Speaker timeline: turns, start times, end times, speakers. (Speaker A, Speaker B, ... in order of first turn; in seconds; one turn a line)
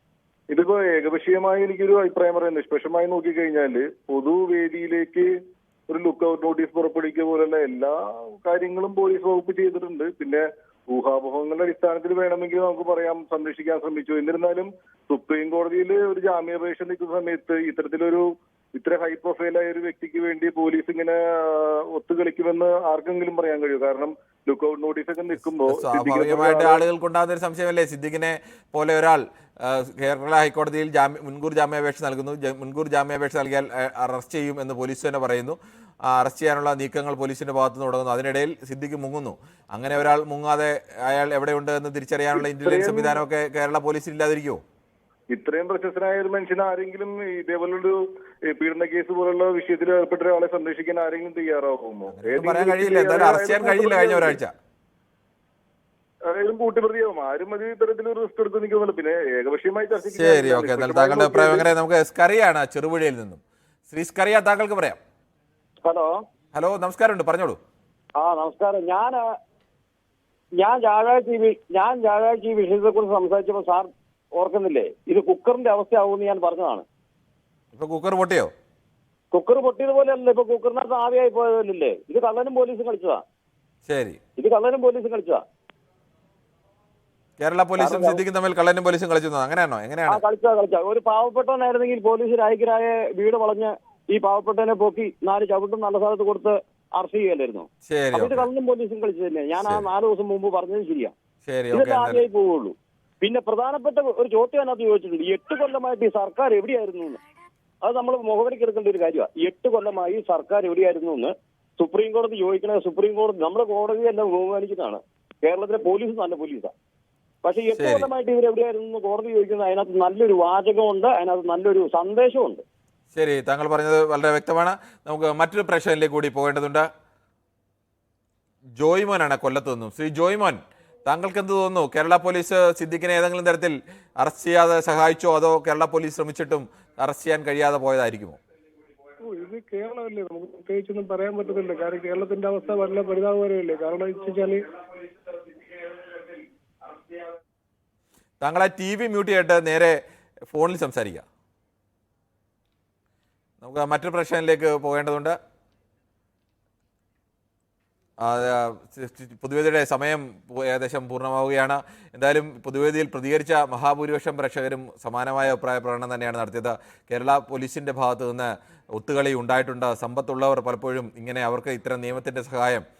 Speaker A: 0.5-5.3
Speaker A: 5.9-26.8
Speaker B: 25.6-35.6
Speaker B: 36.1-44.6
Speaker A: 42.3-43.2
Speaker A: 45.3-54.4
Speaker B: 52.1-54.5
Speaker A: 56.3-61.7
Speaker B: 60.1-65.0
Speaker C: 65.8-66.1
Speaker B: 66.5-67.6
Speaker C: 68.2-69.2
Speaker C: 70.6-76.8
Speaker B: 77.7-78.5
Speaker C: 79.3-83.2
Speaker B: 83.9-84.2
Speaker C: 84.4-85.4
Speaker B: 87.4-90.2
Speaker C: 87.8-88.2
Speaker C: 90.1-101.1
Speaker B: 97.9-98.5
Speaker B: 101.4-102.2
Speaker C: 101.7-107.2
Speaker C: 107.8-116.7
Speaker C: 117.4-122.6
Speaker B: 117.8-118.1
Speaker B: 123.1-126.9
Speaker B: 128.8-138.4
Speaker D: 139.2-144.7
Speaker B: 148.4-150.0
Speaker B: 150.5-151.2
Speaker B: 153.6-155.3
Speaker B: 158.2-172.8